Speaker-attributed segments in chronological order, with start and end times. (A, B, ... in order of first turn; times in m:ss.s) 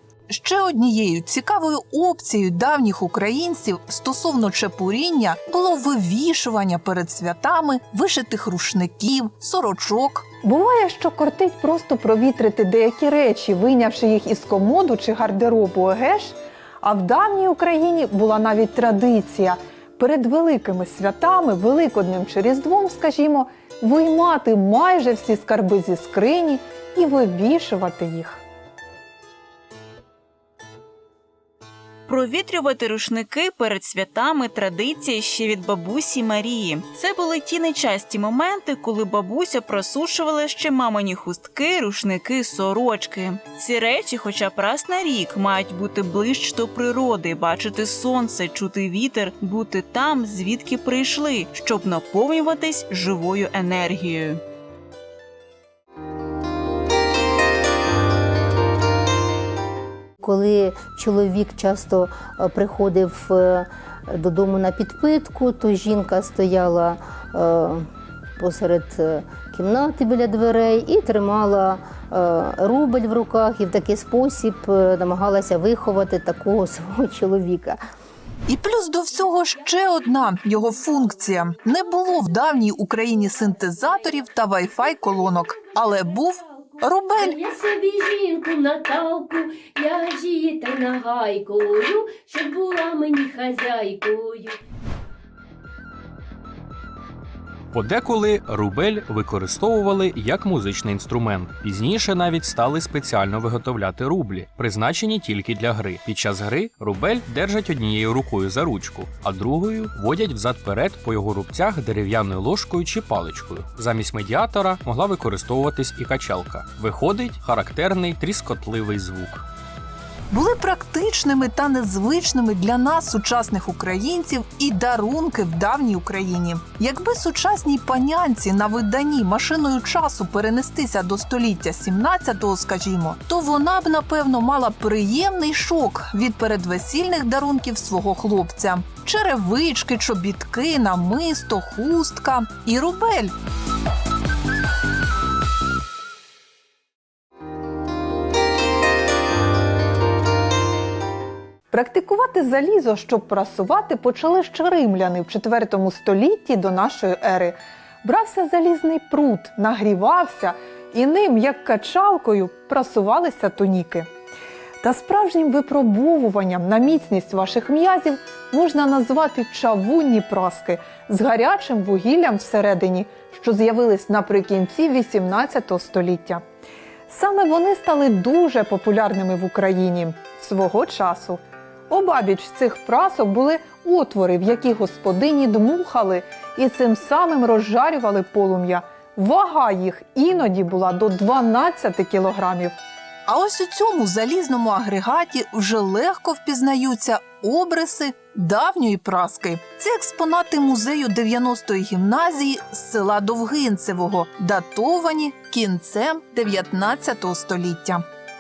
0:00.3-0:10.3 A
0:10.4-0:28.4 B
0:32.1-0:54.4 C
1:00.2-1:07.8 D
1:08.4-1:17.8 D
1:18.5-1:27.5 A
1:27.4-1:34.6 E
1:37.7-1:59.4 F
2:00.3-2:23.3 A
2:31.7-2:44.1 B
2:44.8-2:56.4 B
2:57.1-3:12.8 B
3:13.3-3:28.0 A